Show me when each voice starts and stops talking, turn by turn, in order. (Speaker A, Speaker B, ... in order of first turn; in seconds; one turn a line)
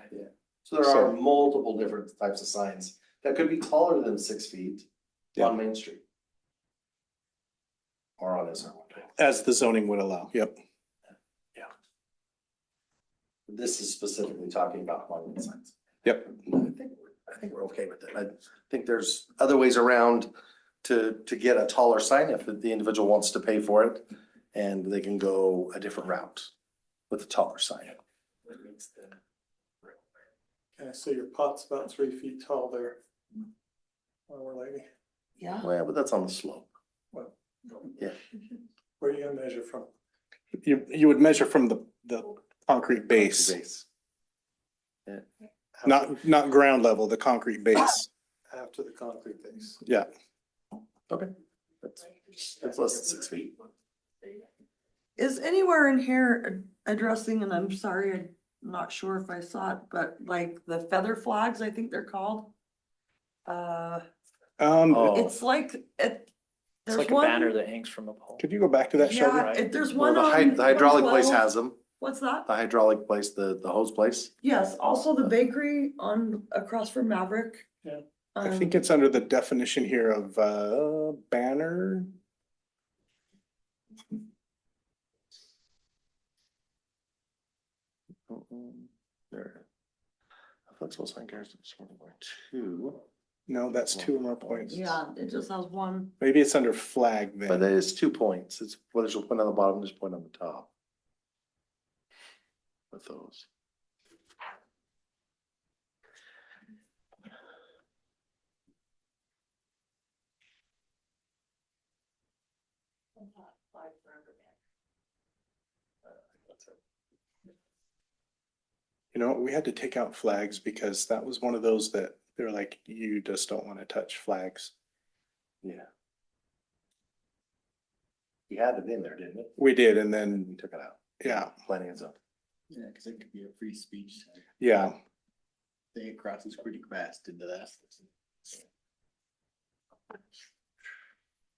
Speaker A: 0.6-6.0
Speaker B: 0.8-1.1
Speaker A: 8.2-9.1
Speaker B: 9.2-10.5
Speaker A: 13.5-20.3
Speaker A: 20.8-26.5
Speaker A: 27.1-28.0
Speaker C: 30.8-33.0
Speaker C: 34.3-34.9
Speaker D: 35.4-35.7
Speaker A: 35.6-36.7
Speaker C: 39.0-39.9
Speaker B: 40.6-43.5
Speaker A: 43.0-43.9
Speaker C: 45.8-46.1
Speaker B: 45.8-48.1
Speaker C: 48.5-49.8
Speaker B: 49.8-50.1
Speaker A: 51.8-53.5
Speaker D: 55.2-62.5
Speaker D: 63.5-64.0
Speaker B: 64.6-65.1
Speaker D: 64.9-66.3
Speaker E: 64.9-65.2
Speaker D: 66.8-67.5
Speaker E: 66.9-68.4
Speaker B: 68.4-69.5
Speaker D: 69.0-71.5
Speaker E: 69.3-69.7
Speaker A: 69.9-71.8
Speaker D: 72.0-72.5
Speaker A: 72.5-74.3
Speaker D: 74.4-77.6
Speaker D: 78.3-78.7
Speaker B: 78.4-82.1
Speaker A: 88.3-89.6
Speaker A: 90.7-93.0
Speaker B: 93.5-95.0
Speaker A: 93.9-94.7
Speaker D: 94.7-96.1
Speaker B: 96.2-97.7
Speaker A: 97.5-100.7
Speaker A: 102.9-103.5
Speaker B: 119.1-124.7
Speaker A: 128.5-129.5
Speaker B: 129.6-130.5
Speaker A: 130.3-132.1
Speaker B: 131.2-131.5
Speaker F: 132.7-134.4
Speaker B: 134.6-134.9
Speaker F: 135.9-138.0